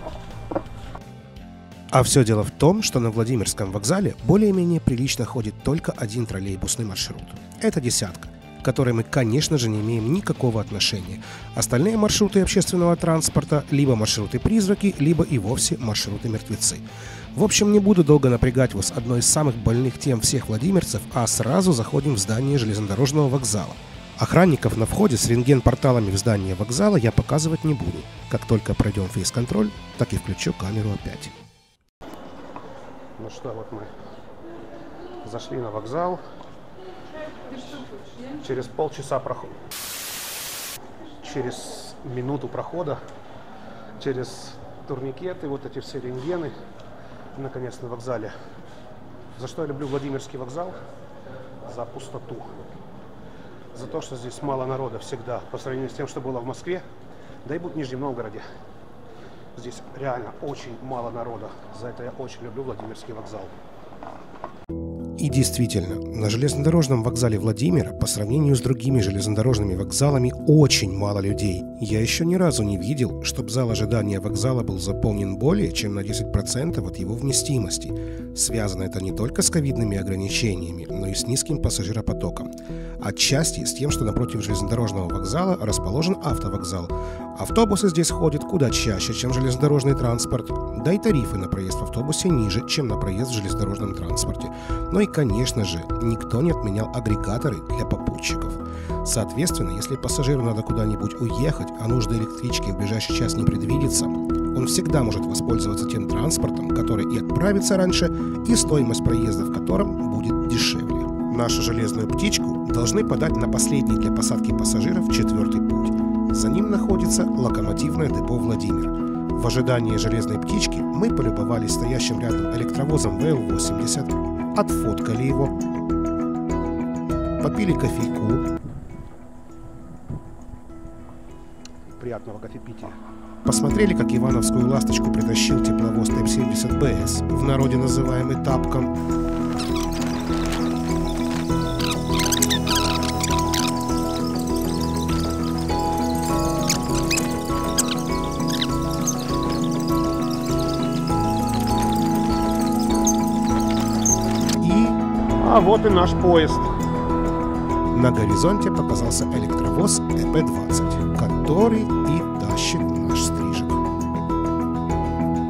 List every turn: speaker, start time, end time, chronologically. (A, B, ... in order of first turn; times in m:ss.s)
0:01.9-0:31.3 A
0:33.2-0:33.9 B
0:35.2-0:36.2 B
0:38.4-0:39.5 B
0:41.2-0:43.0 B
0:44.0-0:46.5 B
0:47.3-0:48.3 B
0:49.4-0:50.8 B
0:51.6-0:52.7 B
0:53.7-0:56.8 B
0:57.4-0:58.4 B
0:59.5-1:03.5 B
1:05.2-2:05.5 A
2:07.4-2:08.4 A
2:11.9-2:13.0 B
2:13.4-2:19.0 A
2:34.6-2:35.0 A
2:35.4-2:36.7 B
2:37.9-2:43.8 A